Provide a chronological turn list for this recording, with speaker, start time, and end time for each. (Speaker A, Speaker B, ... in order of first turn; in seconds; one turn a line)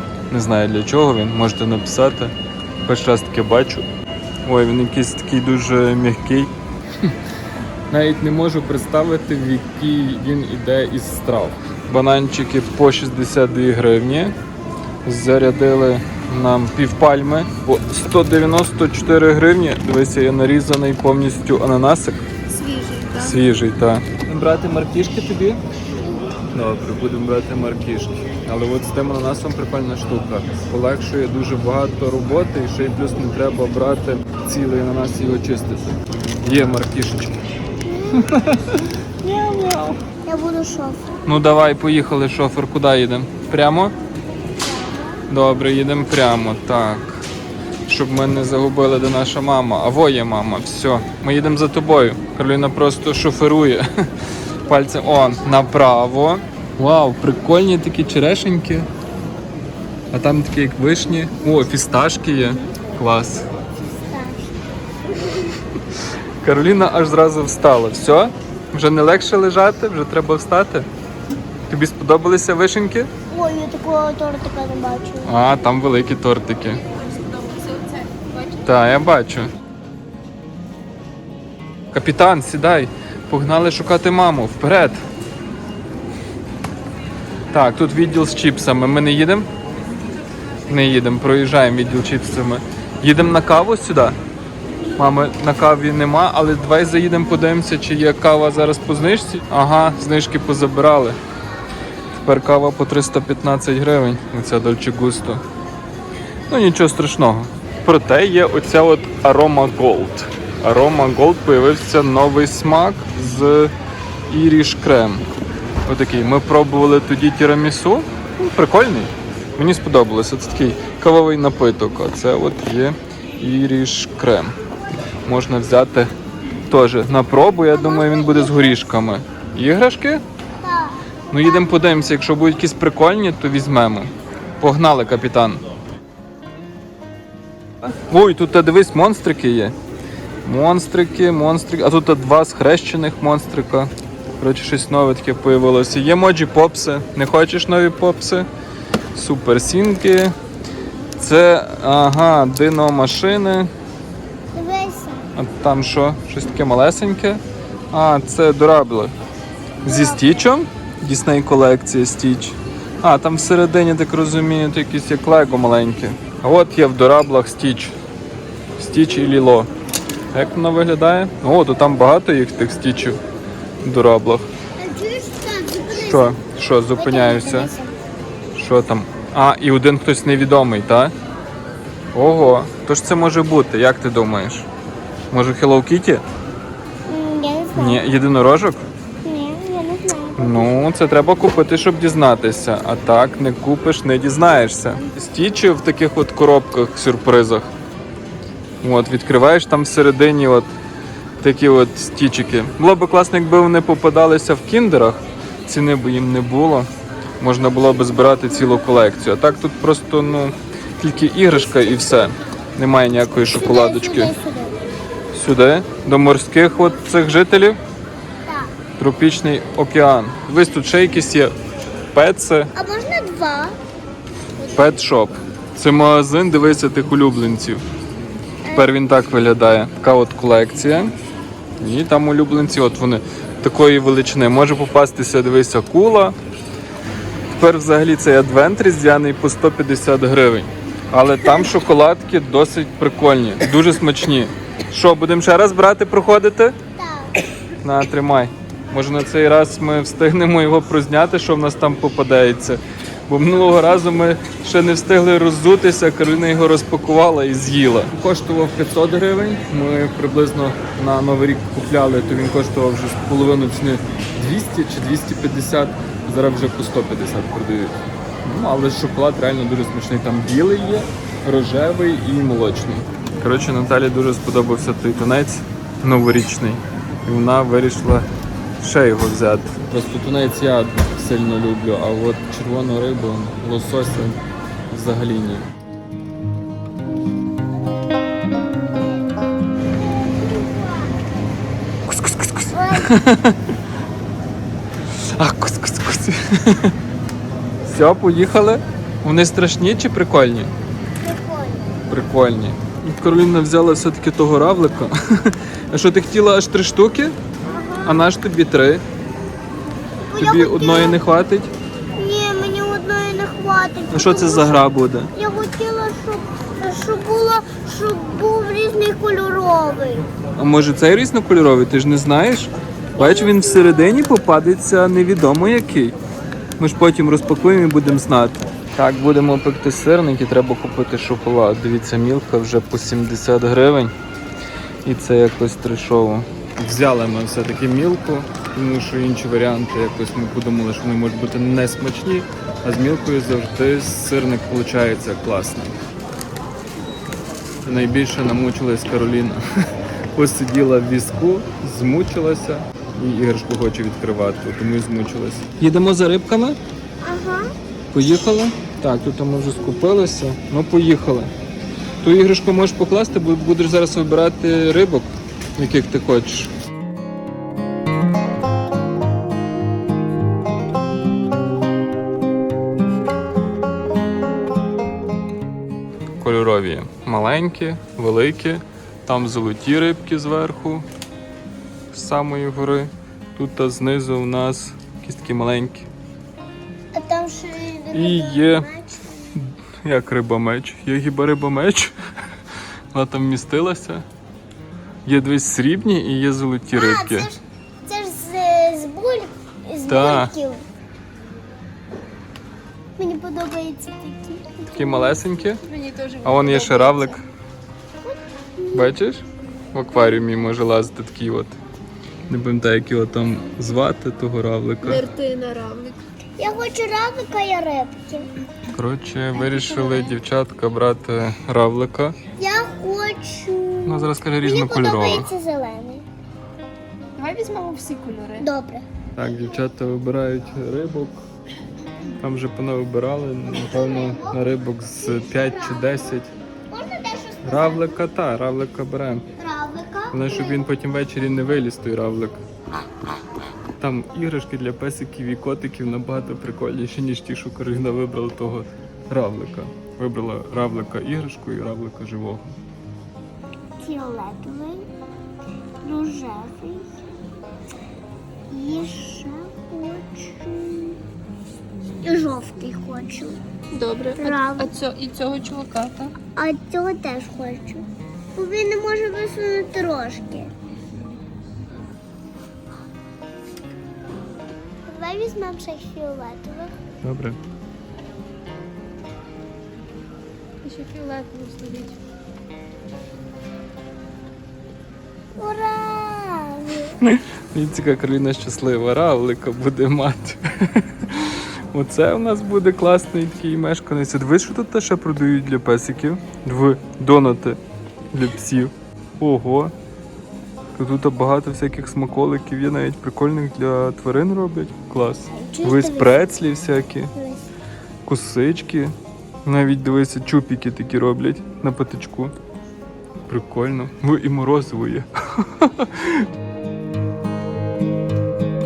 Speaker A: 0.3-3.9
Speaker A: 4.4-6.5
Speaker A: 7.9-14.3
Speaker A: 15.0-22.3
Speaker B: 22.5-23.4
Speaker A: 23.1-25.6
Speaker A: 26.5-37.4
Speaker C: 37.9-38.3
Speaker A: 38.1-40.0
Speaker C: 40.2-41.1
Speaker A: 41.2-43.9
Speaker C: 44.6-45.2
Speaker A: 45.3-47.3
Speaker A: 47.9-53.9
Speaker A: 54.6-58.9
Speaker A: 60.1-63.5
Speaker C: 63.8-64.6
Speaker C: 65.1-65.4
Speaker A: 66.4-70.9
Speaker A: 71.7-73.1
Speaker C: 73.3-75.3
Speaker A: 75.2-76.8
Speaker B: 76.9-78.5
Speaker A: 78.6-79.5
Speaker A: 81.9-85.0
Speaker A: 87.5-89.5
Speaker A: 90.7-94.2
Speaker A: 95.0-101.2
Speaker A: 102.2-105.4
Speaker A: 106.5-113.7
Speaker A: 114.3-115.3
Speaker A: 115.8-124.5
Speaker A: 125.2-126.1
Speaker A: 126.7-130.2
Speaker C: 127.6-128.8
Speaker C: 130.6-131.0
Speaker A: 131.3-135.6
Speaker A: 137.9-139.7
Speaker A: 140.4-148.5
Speaker A: 149.1-150.3
Speaker A: 151.2-153.7
Speaker C: 154.5-155.2
Speaker A: 155.3-159.1
Speaker A: 159.8-167.9
Speaker A: 168.8-169.7
Speaker A: 170.3-173.2
Speaker A: 173.8-174.5
Speaker C: 174.8-176.4
Speaker A: 176.0-177.7
Speaker C: 176.9-177.9
Speaker A: 178.5-181.1
Speaker A: 182.1-184.7
Speaker A: 185.3-186.2
Speaker C: 187.1-188.0
Speaker A: 187.7-188.8
Speaker C: 189.2-190.7
Speaker A: 190.4-197.7
Speaker A: 198.8-200.7
Speaker A: 201.4-206.9
Speaker A: 207.4-214.3
Speaker C: 213.5-214.8
Speaker A: 215.3-217.8
Speaker C: 218.5-218.7
Speaker A: 219.0-221.5
Speaker A: 222.1-222.7
Speaker C: 222.7-223.8
Speaker A: 224.7-227.8
Speaker C: 228.6-228.9
Speaker A: 228.7-231.1
Speaker A: 231.8-236.3
Speaker A: 237.5-246.8
Speaker C: 247.0-247.4
Speaker A: 247.8-278.3
Speaker A: 278.8-285.7
Speaker C: 290.4-291.2
Speaker A: 292.1-293.6
Speaker C: 292.7-293.1
Speaker A: 295.3-296.9
Speaker A: 297.8-300.7
Speaker C: 301.2-301.9
Speaker A: 302.1-307.4
Speaker C: 307.7-308.2
Speaker A: 308.0-309.0
Speaker C: 310.2-311.2
Speaker A: 310.4-311.7
Speaker C: 312.1-314.8
Speaker A: 314.1-315.3
Speaker C: 315.3-320.2
Speaker A: 320.6-326.2
Speaker C: 323.2-324.0
Speaker A: 326.8-334.1
Speaker A: 335.0-345.9
Speaker A: 347.8-349.6
Speaker A: 350.3-356.8
Speaker C: 357.2-357.7
Speaker A: 358.1-361.5
Speaker A: 362.2-366.7
Speaker A: 376.4-381.1
Speaker A: 382.1-386.1
Speaker C: 387.1-389.2
Speaker A: 388.1-388.9
Speaker A: 389.5-392.1
Speaker A: 393.1-394.2
Speaker A: 395.2-397.5
Speaker C: 396.9-400.8
Speaker A: 400.1-400.5
Speaker C: 403.2-405.4
Speaker A: 404.9-405.8
Speaker B: 405.8-407.4
Speaker A: 406.4-407.4
Speaker C: 408.2-409.1
Speaker A: 408.9-411.8
Speaker A: 412.5-415.2
Speaker B: 415.0-416.2
Speaker C: 416.6-418.5
Speaker A: 418.9-422.4
Speaker B: 419.6-420.3
Speaker C: 422.6-426.2
Speaker A: 424.1-425.5
Speaker B: 427.4-428.7
Speaker C: 428.6-429.0
Speaker A: 429.3-431.4
Speaker A: 432.4-436.5
Speaker C: 433.8-434.6
Speaker C: 435.2-436.2
Speaker C: 436.9-438.2
Speaker A: 437.6-439.4
Speaker C: 439.6-440.8
Speaker A: 440.3-442.6
Speaker A: 444.0-452.7
Speaker C: 454.0-455.1
Speaker C: 456.0-457.1
Speaker C: 458.7-461.2
Speaker C: 462.2-463.6
Speaker B: 463.9-466.3
Speaker C: 464.4-464.9
Speaker C: 466.5-468.0
Speaker C: 468.5-470.7
Speaker C: 475.1-476.9
Speaker A: 477.2-477.6
Speaker B: 480.8-482.2
Speaker C: 485.6-487.2
Speaker A: 487.2-497.8
Speaker A: 498.3-499.9
Speaker A: 500.9-507.3
Speaker C: 505.5-506.5
Speaker C: 507.3-507.6
Speaker A: 508.2-512.5
Speaker A: 513.5-516.5